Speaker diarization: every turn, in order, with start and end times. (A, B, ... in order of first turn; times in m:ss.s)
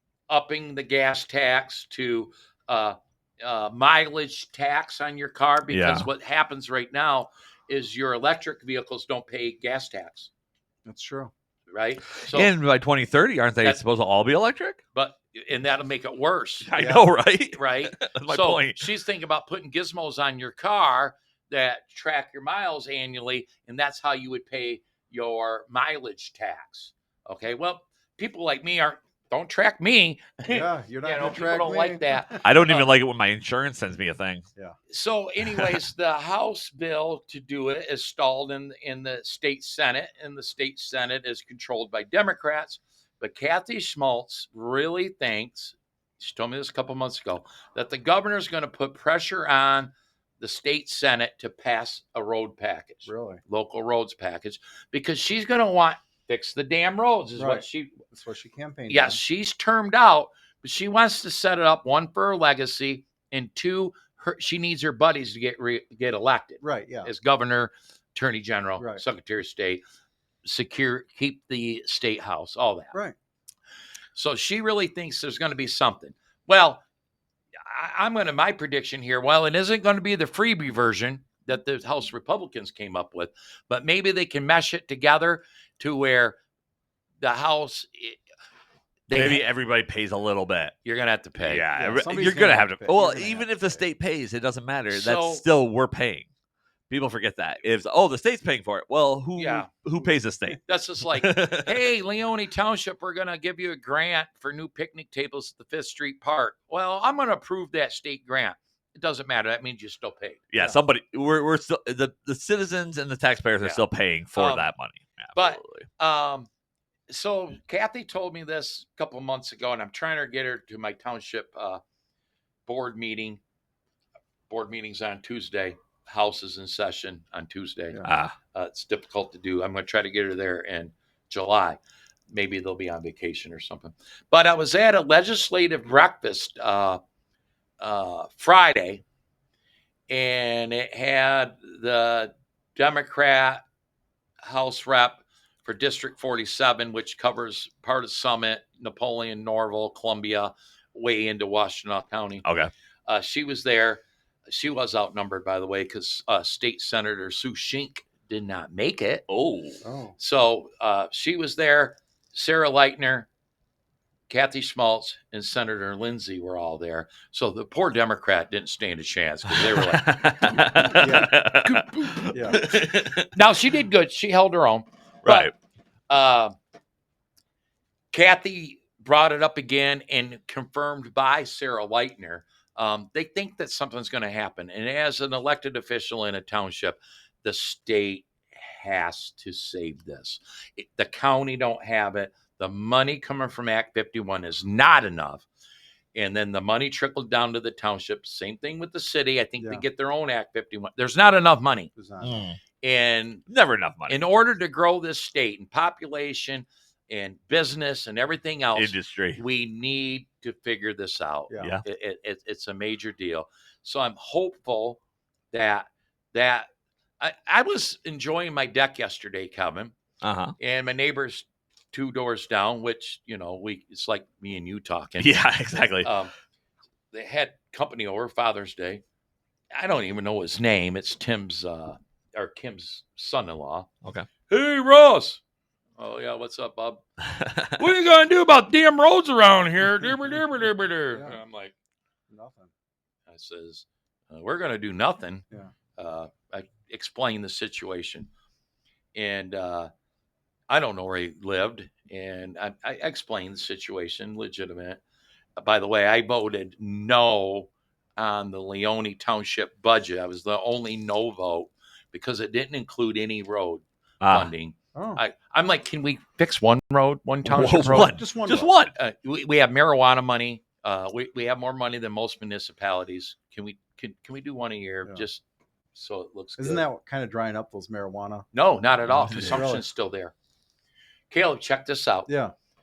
0:00.3-0:10.3 A
0:05.7-0:06.1 B
0:10.8-0:11.3 C
0:11.7-0:12.5 A
0:12.3-0:14.8 B
0:14.9-0:16.7 A
0:16.6-0:18.9 B
0:16.8-0:17.0 C
0:17.5-0:32.9 A
0:30.5-0:32.4 C
0:32.4-0:34.4 B
0:34.9-0:58.0 A
0:35.5-0:35.8 B
0:53.0-0:53.4 C
0:57.4-0:59.2 C
0:58.9-1:09.8 A
1:06.6-1:07.1 C
1:10.4-1:12.9 A
1:14.1-1:16.8 A
1:17.6-1:26.4 A
1:27.2-1:28.2 A
1:29.1-1:29.4 A
1:29.1-1:30.7 B
1:30.8-1:31.6 A
1:31.4-1:36.3 B
1:31.8-1:33.8 C
1:34.9-1:35.4 A
1:36.9-1:41.7 B
1:39.4-1:39.7 A
1:40.6-1:50.4 A
1:50.5-1:55.9 B
1:53.6-1:54.7 A
1:55.3-1:56.5 A
1:57.1-2:01.8 A
2:02.6-2:03.4 A
2:04.5-2:08.0 A
2:08.0-2:08.3 B
2:08.5-2:11.8 A
2:12.3-2:17.0 A
2:17.8-2:19.0 A
2:20.1-2:23.6 A
2:24.4-2:32.4 A
2:32.4-2:32.7 B
2:33.0-2:39.2 A
2:39.3-2:39.8 B
2:39.8-2:40.2 C
2:40.2-2:43.3 A
2:44.3-2:50.8 A
2:49.6-2:53.3 B
2:50.9-2:51.3 C
2:52.3-2:52.6 C
2:53.3-2:55.5 A
2:55.2-2:55.5 B
2:56.1-2:56.5 A
2:58.1-3:15.4 A
3:16.1-3:21.9 A
3:19.6-3:19.8 C
3:22.0-3:22.4 C
3:22.2-3:22.6 B
3:22.8-3:23.4 A
3:23.5-3:24.2 B
3:24.1-3:35.0 A
3:28.7-3:29.4 B
3:31.5-3:31.8 C
3:35.5-3:36.7 A
3:37.2-3:39.9 A
3:40.2-3:40.5 B
3:40.6-3:45.3 A
3:45.2-3:46.1 B
3:46.0-3:46.3 A
3:47.1-3:49.0 A
3:49.7-3:53.9 A
3:54.5-3:55.4 A
3:56.0-3:57.0 A
3:57.4-3:57.8 B
3:57.7-4:01.7 A
4:01.1-4:01.4 C
4:02.3-4:02.7 C
4:03.3-4:05.4 A
4:06.0-4:08.3 A
4:09.1-4:09.9 A
4:10.7-4:15.0 A
4:15.6-4:28.2 A
4:24.2-4:24.5 B
4:24.9-4:25.2 C
4:27.4-4:28.7 C
4:27.5-4:28.9 B
4:28.9-4:35.4 A
4:35.9-4:36.8 A
4:36.6-4:38.5 C
4:38.5-4:40.3 A
4:39.1-4:39.7 B
4:39.4-4:39.8 C
4:41.3-4:42.3 A
4:42.3-4:42.5 C